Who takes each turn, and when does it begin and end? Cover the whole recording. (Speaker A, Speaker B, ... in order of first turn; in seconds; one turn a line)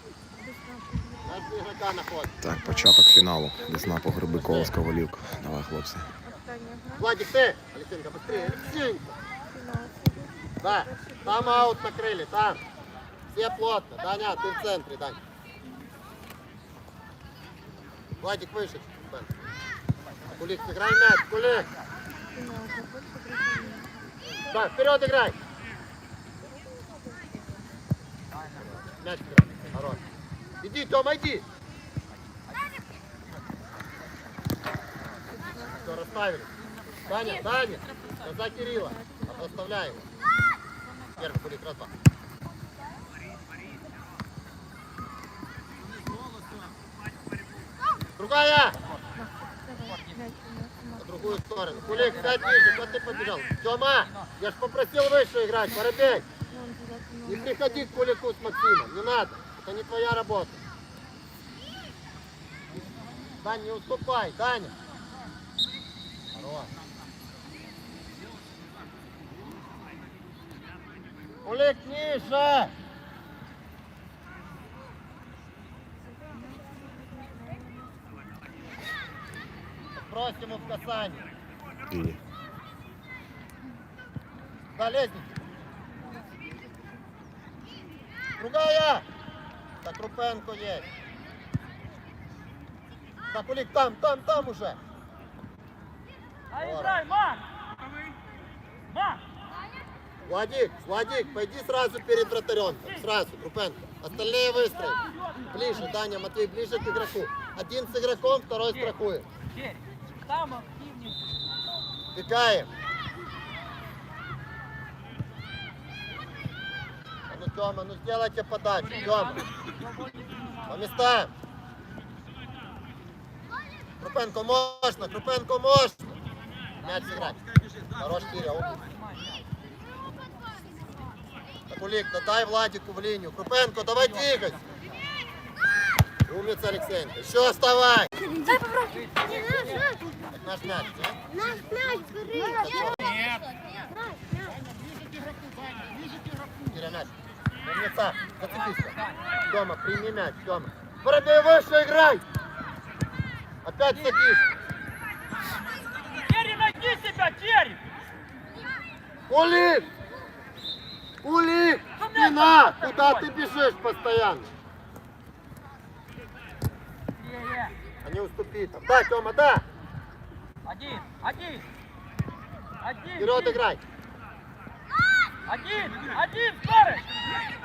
Speaker A: 0.3-1.5
Speaker B: 1.2-2.3
Speaker C: 2.4-6.1
Speaker A: 2.5-4.7
Speaker B: 4.2-4.7
Speaker A: 6.2-7.1
Speaker B: 7.0-9.1
Speaker A: 8.3-8.8
Speaker A: 9.4-11.8
Speaker B: 10.6-12.6
Speaker B: 13.3-15.2
Speaker B: 18.2-19.3
Speaker D: 20.0-20.7
Speaker B: 20.3-21.7
Speaker D: 21.4-21.9
Speaker A: 22.3-24.3
Speaker B: 24.5-25.4
Speaker D: 28.3-28.9
Speaker B: 28.7-30.0
Speaker B: 30.6-31.4
Speaker D: 32.3-32.7
Speaker D: 33.4-34.0
Speaker A: 35.3-36.0
Speaker B: 35.7-36.5
Speaker D: 36.9-38.1
Speaker B: 37.1-40.0
Speaker A: 37.1-37.5
Speaker A: 38.0-40.5
Speaker B: 41.2-41.9
Speaker B: 48.2-48.8
Speaker A: 49.1-52.7
Speaker D: 49.8-50.3
Speaker B: 51.0-56.2
Speaker D: 51.9-52.9
Speaker D: 54.0-54.3
Speaker A: 56.1-58.0
Speaker B: 57.2-60.6
Speaker B: 63.4-64.7
Speaker B: 66.3-66.7
Speaker B: 71.4-72.7
Speaker A: 76.3-77.7
Speaker B: 79.9-81.3
Speaker C: 81.9-82.2
Speaker B: 84.7-85.4
Speaker B: 88.4-89.0
Speaker B: 89.8-90.9
Speaker B: 93.3-94.8
Speaker D: 96.5-97.4
Speaker B: 96.6-97.0
Speaker D: 98.9-99.2
Speaker B: 100.2-109.2
Speaker D: 102.7-103.0
Speaker D: 104.6-105.9
Speaker D: 108.7-109.0
Speaker D: 109.5-111.3
Speaker B: 112.1-112.7
Speaker B: 117.3-119.4
Speaker D: 118.8-121.0
Speaker B: 120.7-121.3
Speaker B: 124.0-126.2
Speaker D: 126.8-127.3
Speaker B: 126.8-127.4
Speaker B: 128.0-128.9
Speaker D: 128.5-129.4
Speaker B: 131.7-134.6
Speaker D: 133.9-135.0
Speaker B: 136.3-138.1
Speaker A: 138.2-140.1
Speaker D: 138.9-139.9
Speaker B: 140.2-141.2
Speaker A: 141.2-144.6
Speaker B: 142.4-143.2
Speaker B: 146.7-147.1
Speaker B: 147.6-148.9
Speaker D: 148.4-149.2
Speaker B: 149.5-152.2
Speaker B: 153.6-154.5
Speaker D: 153.9-154.2
Speaker D: 156.2-157.8
Speaker B: 159.3-159.9
Speaker B: 161.2-164.5
Speaker D: 161.9-163.3
Speaker D: 167.2-167.7
Speaker B: 168.0-169.6
Speaker D: 170.6-171.7
Speaker D: 172.8-173.6
Speaker B: 173.2-173.8
Speaker D: 175.4-177.1